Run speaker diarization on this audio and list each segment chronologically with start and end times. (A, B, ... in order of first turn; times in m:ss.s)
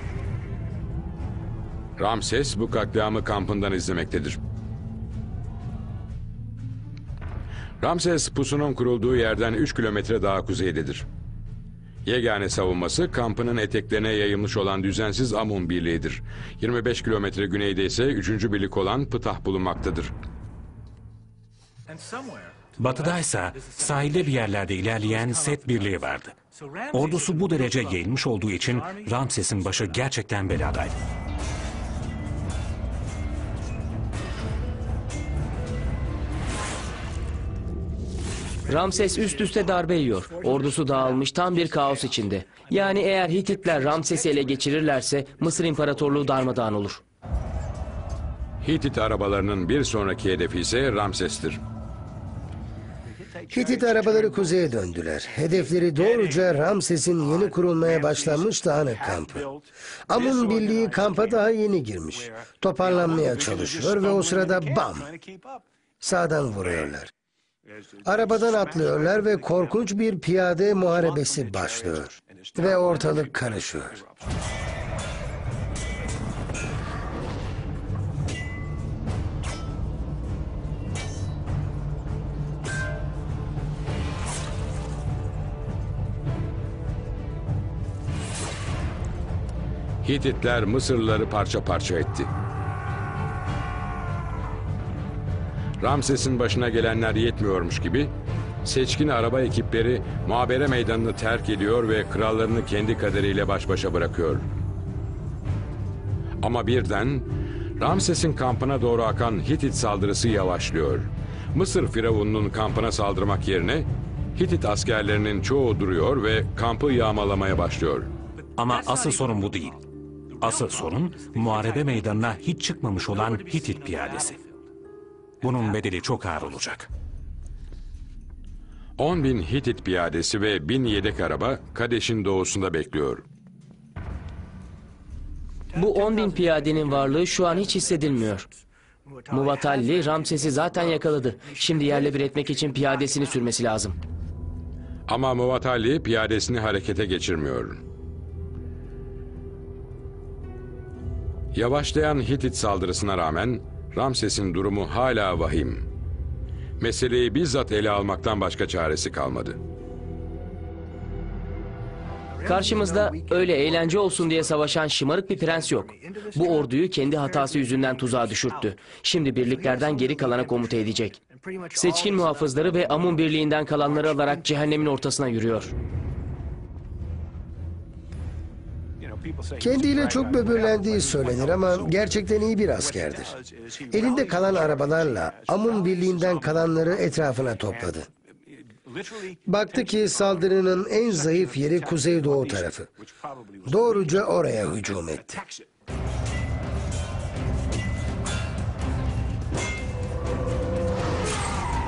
0:02.0-0:04.4 A
0:07.8-0:11.0 A
0:12.0-0:20.1 A
0:22.8-0:26.4 B
0:26.9-0:30.9 B
0:38.7-0:47.0 C
0:48.6-0:51.6 A
0:53.5-0:59.5 D
1:00.1-1:05.1 D
1:06.0-1:07.1 D
1:08.0-1:14.0 D
1:30.0-1:32.3 A
1:35.8-1:38.1 A
1:38.6-1:44.4 A
1:46.4-1:58.1 A
1:58.6-1:59.8 B
2:00.4-2:04.4 B
2:05.4-2:06.9 B
2:09.0-2:13.2 A
2:15.7-2:18.5 C
2:19.3-2:24.0 C
2:25.1-2:27.8 A
2:31.5-2:35.8 A
2:36.8-2:39.6 A
2:42.4-2:51.2 C
2:51.7-2:55.7 C
2:59.6-3:03.4 D
3:03.9-3:08.1 D
3:09.4-3:12.9 D
3:13.6-3:15.4 D